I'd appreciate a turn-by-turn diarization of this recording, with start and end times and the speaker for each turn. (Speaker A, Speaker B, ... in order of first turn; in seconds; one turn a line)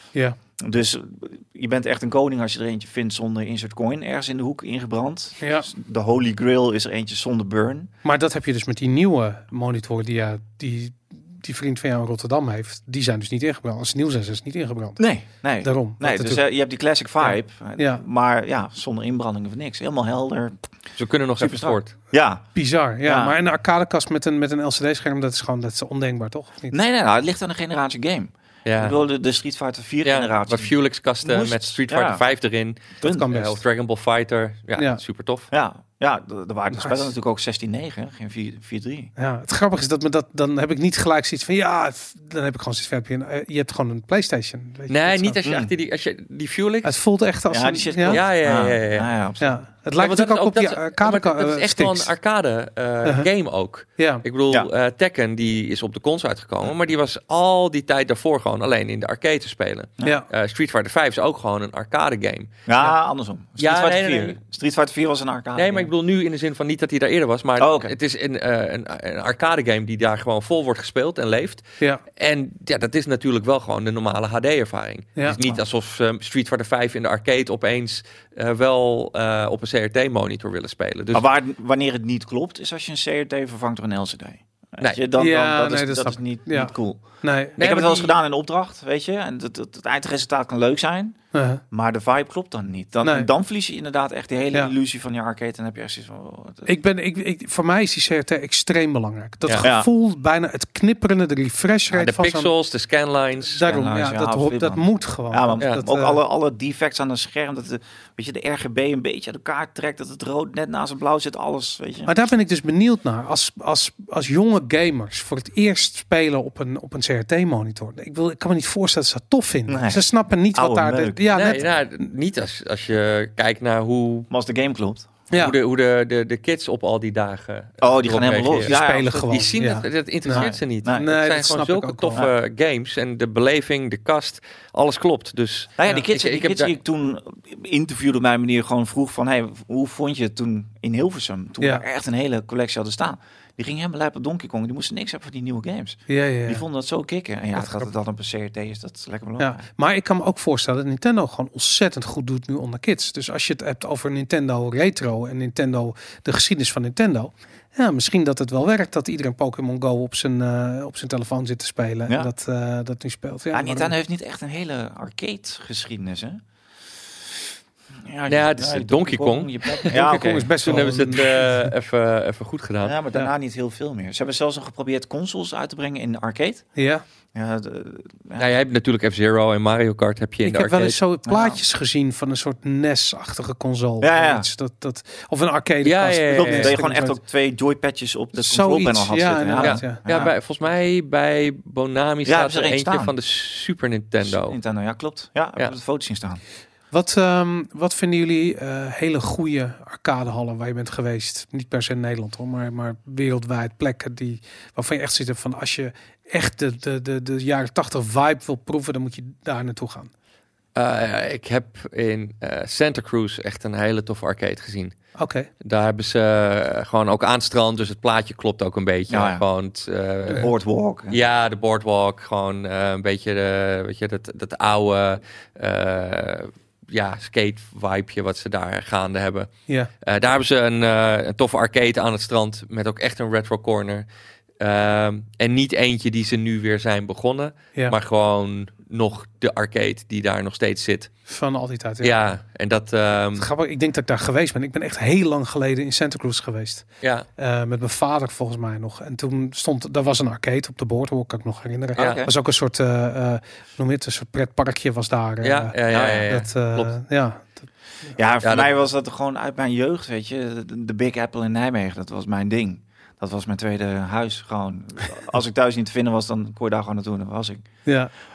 Speaker A: 0.6-7.9
Speaker B: 5.4-5.7
Speaker B: 8.0-15.0
Speaker A: 15.0-20.6
Speaker B: 15.6-16.4
Speaker B: 17.2-18.0
Speaker C: 21.0-21.9
Speaker A: 21.4-22.4
Speaker B: 22.5-26.7
Speaker A: 23.0-23.3
Speaker A: 26.7-30.7
Speaker C: 28.6-29.0
Speaker C: 30.0-35.5
Speaker A: 31.2-32.2
Speaker A: 33.0-33.3
Speaker B: 33.0-33.6
Speaker A: 35.5-39.1
Speaker B: 36.7-37.0
Speaker B: 39.2-45.4
Speaker C: 44.9-46.9
Speaker A: 45.4-45.7
Speaker B: 46.8-48.2
Speaker A: 47.5-49.5
Speaker C: 48.1-49.1
Speaker B: 49.4-52.1
Speaker C: 50.0-62.6
Speaker B: 54.0-54.2
Speaker B: 60.0-60.3
Speaker A: 62.7-65.9
Speaker C: 63.6-64.4
Speaker C: 65.5-71.6
Speaker A: 67.6-67.9
Speaker C: 72.1-81.2
Speaker A: 75.3-75.6
Speaker A: 81.1-87.0
Speaker B: 85.2-87.6
Speaker A: 87.6-91.2
Speaker C: 87.6-88.1
Speaker B: 91.3-91.6
Speaker A: 91.7-96.7
Speaker B: 93.0-93.3
Speaker B: 96.6-102.5
Speaker C: 101.9-103.7
Speaker B: 103.5-106.2
Speaker A: 103.6-112.1
Speaker B: 112.0-121.6
Speaker A: 119.7-121.6
Speaker C: 121.3-124.3
Speaker A: 124.3-125.1
Speaker B: 125.3-125.6
Speaker C: 125.3-136.7
Speaker A: 127.8-129.2
Speaker B: 128.7-132.2
Speaker A: 130.3-131.1
Speaker A: 135.8-149.7
Speaker B: 146.1-146.6
Speaker B: 147.6-147.9
Speaker B: 149.4-163.9
Speaker A: 163.5-166.4
Speaker A: 168.0-170.8
Speaker C: 168.3-169.9
Speaker B: 169.9-171.7
Speaker C: 170.6-172.9
Speaker A: 172.8-176.7
Speaker B: 176.8-177.0
Speaker A: 177.3-178.5
Speaker C: 178.4-181.0
Speaker B: 180.4-187.2
Speaker A: 181.2-181.6
Speaker A: 184.0-184.5
Speaker C: 185.8-186.7
Speaker A: 186.3-190.3
Speaker B: 188.4-190.1
Speaker C: 189.6-194.6
Speaker A: 192.2-193.1
Speaker A: 194.2-196.4
Speaker B: 196.9-210.1
Speaker C: 210.7-214.9
Speaker B: 215.2-215.5
Speaker C: 215.6-220.5
Speaker A: 219.1-219.4
Speaker A: 220.3-221.2
Speaker C: 221.1-234.0
Speaker C: 234.6-241.1
Speaker B: 241.3-242.2
Speaker C: 242.0-243.5
Speaker B: 243.4-246.8
Speaker B: 247.4-255.7
Speaker A: 251.9-252.3
Speaker C: 251.9-252.3
Speaker C: 255.4-256.9
Speaker A: 255.9-256.3
Speaker B: 256.3-257.6
Speaker A: 258.1-267.6
Speaker C: 258.4-258.7
Speaker B: 267.8-268.1